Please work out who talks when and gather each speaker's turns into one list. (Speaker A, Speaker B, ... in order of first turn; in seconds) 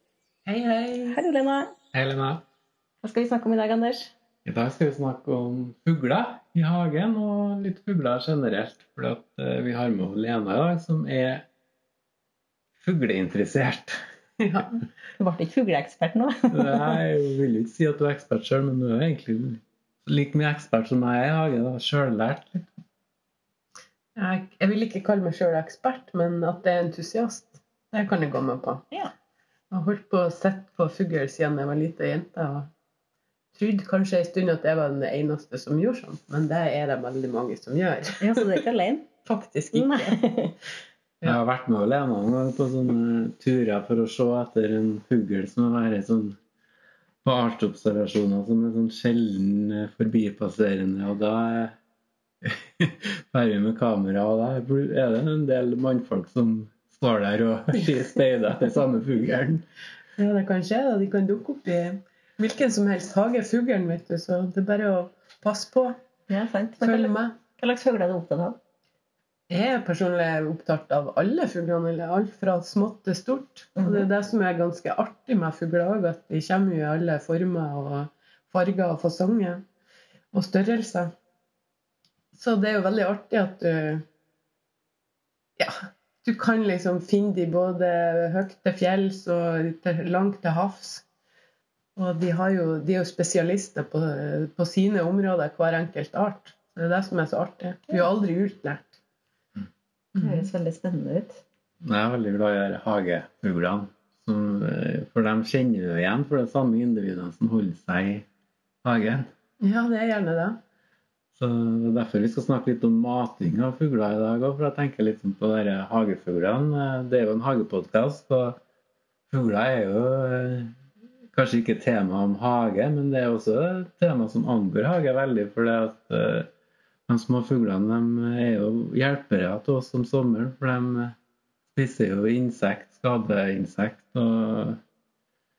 Speaker A: 0.5-1.2, 14.4-14.7, 24.2-28.8, 29.7-32.7, 33.5-38.6, 39.2-40.2, 60.2-66.0, 66.8-67.3, 69.5-79.6, 80.3-81.1, 82.3-84.0, 85.6-91.0, 92.0-99.0, 100.2-100.5, 109.6-110.6
Speaker B: 1.1-1.7, 3.0-4.1, 15.2-17.0, 38.2-39.1, 39.7-40.6, 66.3-68.6, 73.8-74.1, 100.2-101.4
Speaker C: 1.9-2.4, 4.5-11.4, 12.8-14.0, 16.5-22.7, 41.2-46.4, 47.2-51.8, 52.4-59.6, 101.8-108.3, 108.8-109.3, 111.4-118.6, 119.3-120.7, 121.3-126.5, 127.1-131.2, 131.7-134.8